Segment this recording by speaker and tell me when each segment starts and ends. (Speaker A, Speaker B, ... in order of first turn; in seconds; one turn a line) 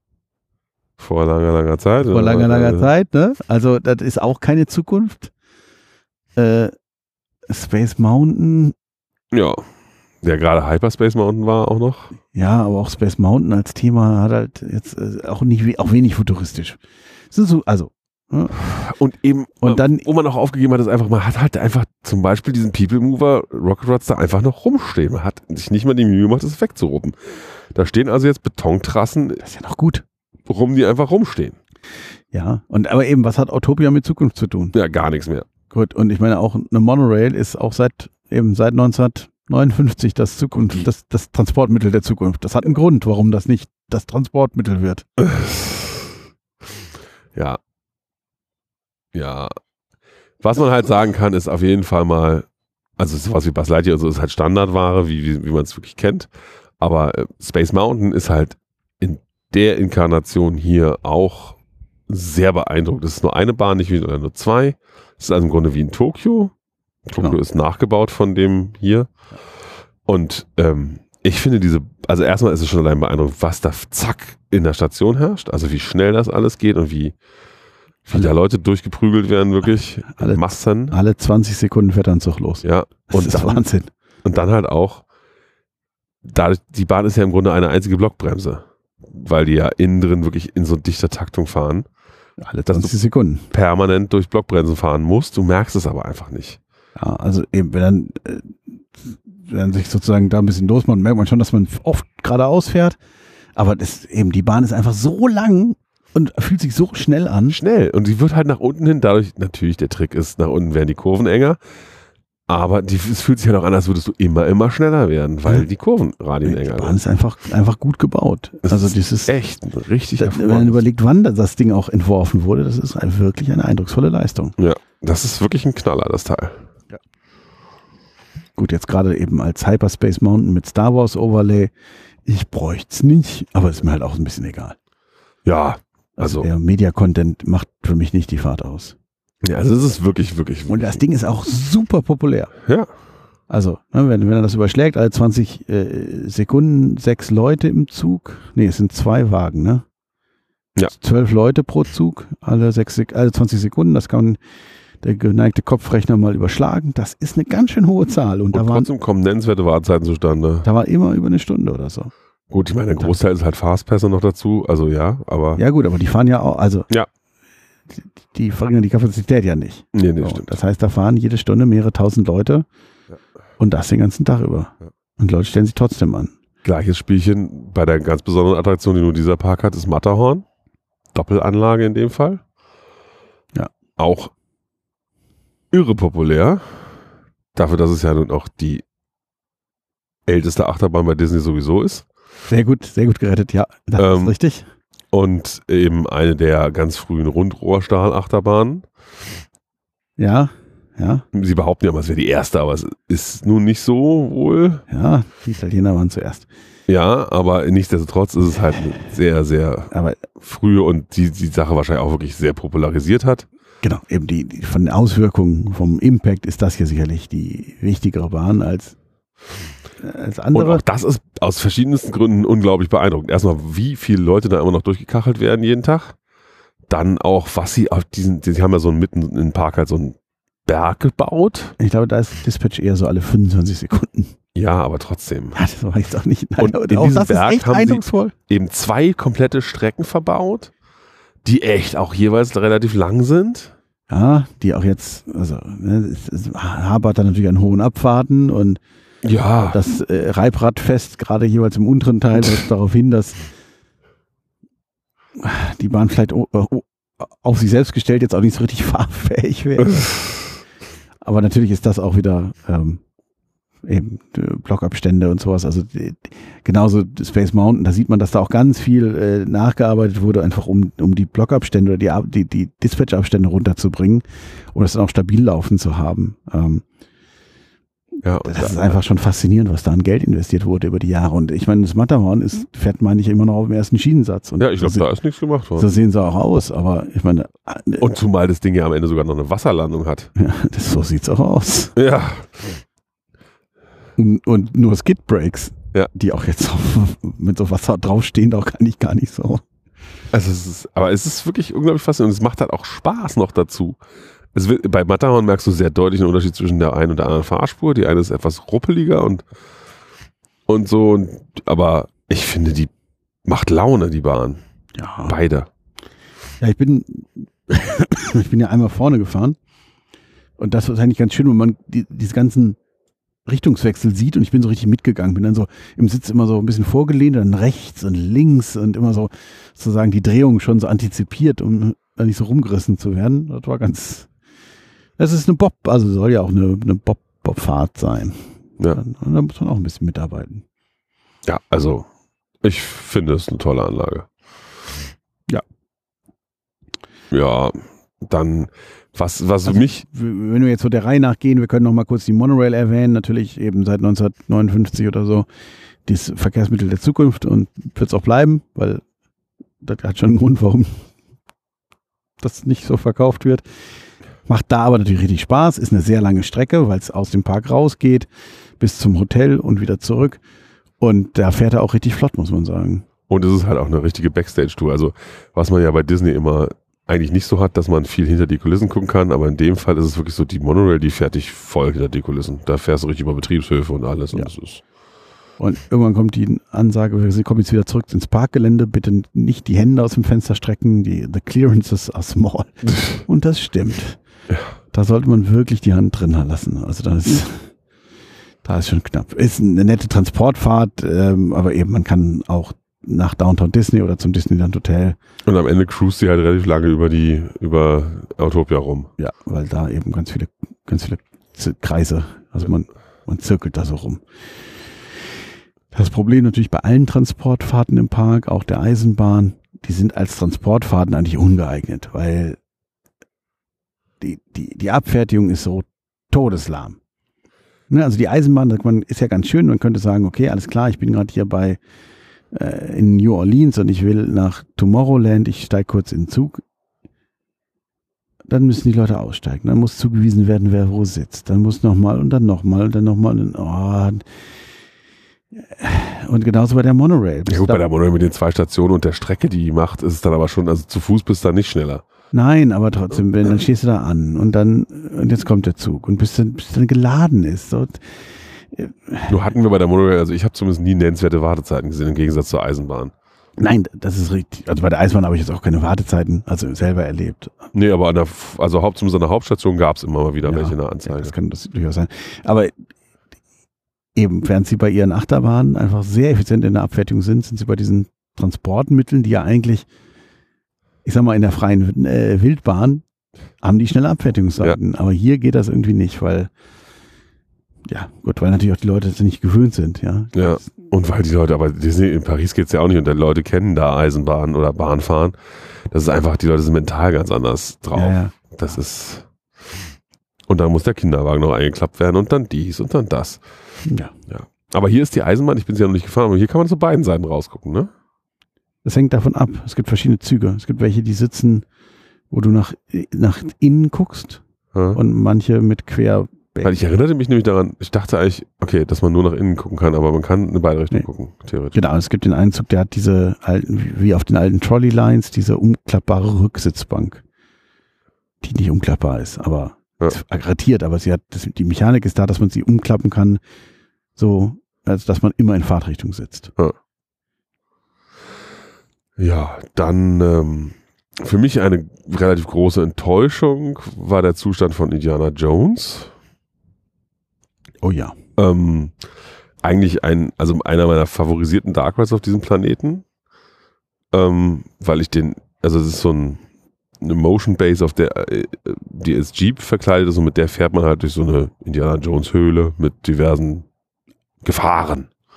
Speaker A: 1.0-2.9
Speaker B: 2.0-5.3
Speaker B: 6.3-6.7
Speaker B: 7.5-8.7
Speaker A: 9.3-9.6
Speaker A: 10.2-12.1
Speaker B: 12.3-18.8
Speaker A: 18.6-29.4
Speaker B: 19.6-20.1
Speaker B: 29.4-30.0
Speaker A: 30.5-31.6
Speaker B: 32.3-34.7
Speaker A: 34.7-35.5
Speaker B: 35.7-45.0
Speaker A: 45.2-46.1
Speaker A: 47.3-47.6
Speaker A: 49.1-49.5
Speaker A: 50.4-52.5
Speaker A: 53.0-66.5
Speaker A: 67.1-69.1
Speaker A: 70.0-77.1
Speaker A: 78.0-81.0
Speaker B: 80.1-83.9
Speaker A: 82.6-83.6
Speaker A: 84.2-85.0
Speaker A: 86.2-91.8
Speaker B: 92.4-93.5
Speaker A: 92.7-92.9
Speaker A: 93.5-96.6
Speaker B: 97.0-103.0
Speaker B: 103.5-107.6
Speaker A: 107.5-111.6
Speaker A: 112.5-117.0
Speaker B: 116.4-119.3
Speaker A: 118.7-120.8
Speaker B: 120.2-124.5
Speaker A: 124.6-126.5
Speaker B: 128.6-131.7
Speaker B: 132.2-134.8
Speaker A: 135.4-136.5
Speaker B: 136.2-138.9
Speaker A: 139.4-141.0
Speaker B: 140.7-142.5
Speaker B: 143.5-149.8
Speaker B: 150.9-154.4
Speaker B: 155.0-158.9
Speaker A: 158.5-160.7
Speaker B: 160.6-162.1
Speaker A: 162.5-165.6
Speaker B: 165.6-166.9
Speaker B: 168.2-172.7
Speaker A: 169.9-170.6
Speaker B: 173.6-176.3
Speaker A: 176.6-180.4
Speaker A: 181.1-182.4
Speaker A: 184.0-184.3
Speaker A: 185.7-186.6
Speaker A: 187.5-188.8
Speaker A: 190.2-192.1
Speaker B: 192.5-194.7
Speaker A: 194.0-194.3
Speaker A: 195.1-198.9
Speaker B: 200.2-201.2
Speaker A: 201.3-204.8
Speaker B: 204.9-206.5
Speaker A: 206.9-213.5
Speaker B: 209.9-210.3
Speaker B: 213.8-218.9
Speaker B: 220.0-220.8
Speaker A: 220.5-226.2
Speaker A: 226.9-231.7
Speaker B: 231.8-234.3
Speaker A: 234.5-235.6
Speaker B: 235.5-238.3
Speaker A: 236.6-240.7
Speaker A: 241.4-243.7
Speaker B: 244.1-248.8
Speaker A: 249.2-249.8
Speaker B: 249.6-253.4
Speaker B: 255.4-260.2
Speaker B: 261.2-263.0
Speaker B: 263.8-276.8
Speaker A: 278.2-279.0
Speaker B: 278.4-285.0
Speaker A: 284.6-285.9
Speaker B: 285.8-288.1
Speaker A: 288.0-290.3
Speaker B: 290.4-291.9
Speaker A: 291.9-292.8
Speaker B: 294.2-299.6
Speaker A: 300.3-304.0
Speaker A: 304.5-309.4
Speaker A: 310.7-312.9
Speaker A: 313.4-314.6
Speaker B: 314.9-315.4
Speaker A: 315.3-315.7
Speaker B: 316.6-319.6
Speaker B: 320.6-322.8
Speaker B: 323.4-334.3
Speaker B: 335.2-338.4
Speaker B: 338.9-340.6
Speaker A: 341.4-342.1
Speaker A: 342.6-344.3
Speaker A: 347.3-350.0
Speaker B: 349.6-355.4
Speaker B: 356.1-359.0
Speaker B: 359.8-361.0
Speaker B: 362.4-363.6
Speaker B: 364.4-368.3
Speaker B: 368.8-370.4
Speaker B: 371.0-373.0
Speaker A: 373.3-384.8
Speaker B: 385.6-394.2
Speaker B: 394.9-397.7
Speaker B: 398.6-405.2
Speaker A: 405.4-409.1
Speaker B: 409.2-414.2
Speaker B: 415.9-422.6
Speaker B: 424.2-427.0
Speaker B: 427.9-431.8
Speaker B: 432.5-436.6
Speaker B: 438.5-444.2
Speaker B: 445.5-447.8
Speaker A: 447.5-452.0
Speaker B: 452.3-458.0
Speaker B: 458.7-459.4
Speaker A: 459.3-463.1
Speaker B: 463.6-467.7
Speaker A: 467.7-471.3
Speaker B: 470.4-472.7
Speaker B: 474.1-479.9
Speaker B: 481.0-483.0
Speaker B: 483.6-486.5
Speaker B: 487.9-490.7
Speaker A: 490.3-495.3
Speaker A: 495.9-499.8
Speaker B: 497.9-498.4
Speaker A: 500.5-503.4
Speaker B: 503.8-504.1
Speaker A: 504.3-507.9
Speaker B: 508.8-511.6
Speaker B: 512.3-514.4
Speaker A: 514.7-515.0
Speaker B: 514.9-516.8
Speaker A: 516.6-521.8
Speaker B: 521.7-527.2
Speaker B: 528.4-533.4
Speaker B: 534.2-536.5
Speaker A: 539.2-546.1
Speaker B: 547.8-548.1
Speaker A: 548.4-548.9
Speaker A: 549.6-553.0
Speaker A: 554.1-556.4
Speaker A: 557.0-563.6
Speaker A: 564.4-565.1